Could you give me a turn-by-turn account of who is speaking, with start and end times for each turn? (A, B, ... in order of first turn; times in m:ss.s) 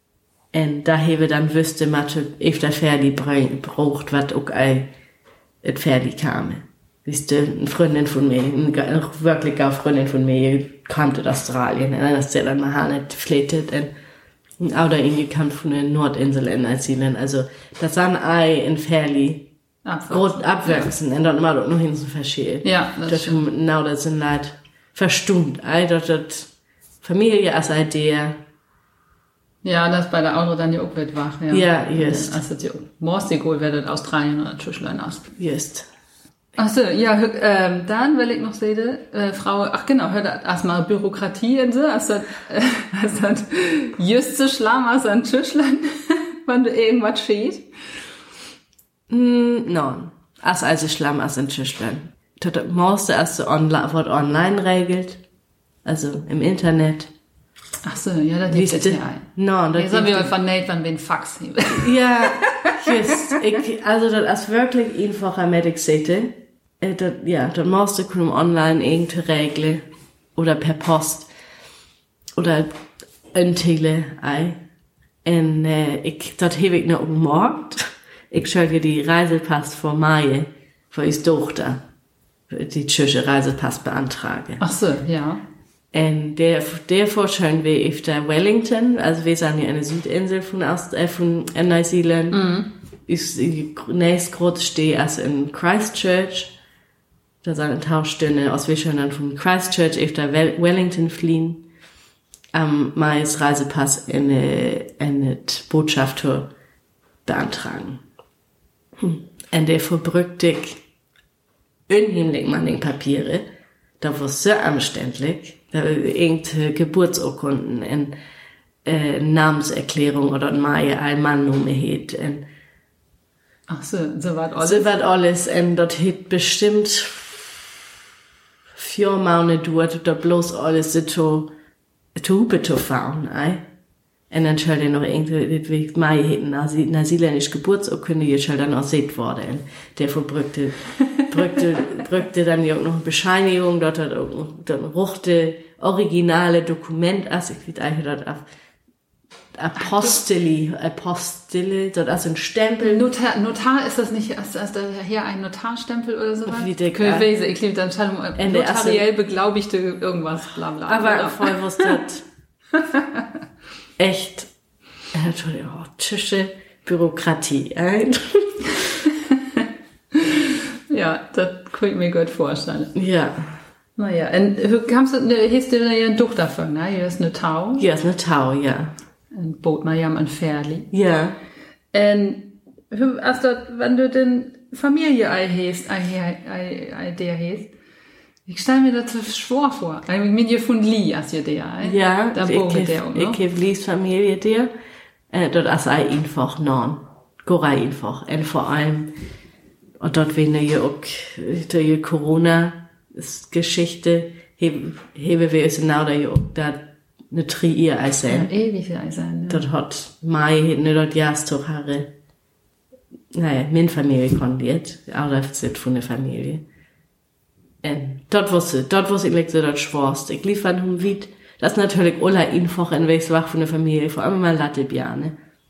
0:00.5-0:04.9 A
0:05.6-0:13.9 A
0:14.6-0:19.5 A
0:19.8-0:20.9 B
0:20.1-0:26.5 A
0:22.6-0:23.4 B
0:27.0-0:28.4 A
0:29.6-0:35.3 B
0:31.5-0:32.4 A
0:35.4-0:35.9 A
0:36.6-0:47.7 B
0:49.1-0:55.2 A
0:55.8-0:57.1 A
0:57.8-1:03.4 B
0:58.5-1:00.3 A
1:01.7-1:09.8 A
1:10.4-1:11.3 A
1:12.4-1:12.7 A
1:13.3-1:14.6 A
1:15.2-1:21.8 A
1:22.5-1:24.6 A
1:24.6-1:25.4 B
1:25.9-1:32.4 A
1:32.3-1:32.7 B
1:33.1-1:36.5 A
1:37.4-1:41.6 A
1:42.5-1:46.5 A
1:47.2-1:48.0 A
1:49.0-1:50.8 A
1:51.9-1:53.4 A
1:54.0-1:58.1 A
1:58.8-2:02.4 A
2:03.7-2:05.0 B
2:04.6-2:07.8 A
2:08.7-2:11.5 A
2:12.1-2:13.6 A
2:14.3-2:28.4 A
2:29.5-2:33.1 A
2:29.8-2:30.1 B
2:32.8-2:41.9 B
2:36.4-2:37.3 A
2:38.4-2:39.1 A
2:40.9-2:42.2 A
2:42.8-2:43.2 B
2:44.0-2:44.5 A
2:45.1-2:48.9 A
2:49.3-2:52.9 B
2:52.9-2:53.6 A
2:54.0-2:57.9 B
2:57.8-2:58.9 A
2:59.3-3:00.9 B
3:00.9-3:01.4 A
3:01.9-3:07.7 B
3:08.4-3:13.4 B
3:11.8-3:14.7 A
3:15.3-3:19.1 A
3:20.0-3:28.5 A
3:28.3-3:29.6 B
3:29.5-3:32.1 A
3:33.3-3:36.6 A
3:37.8-3:45.4 A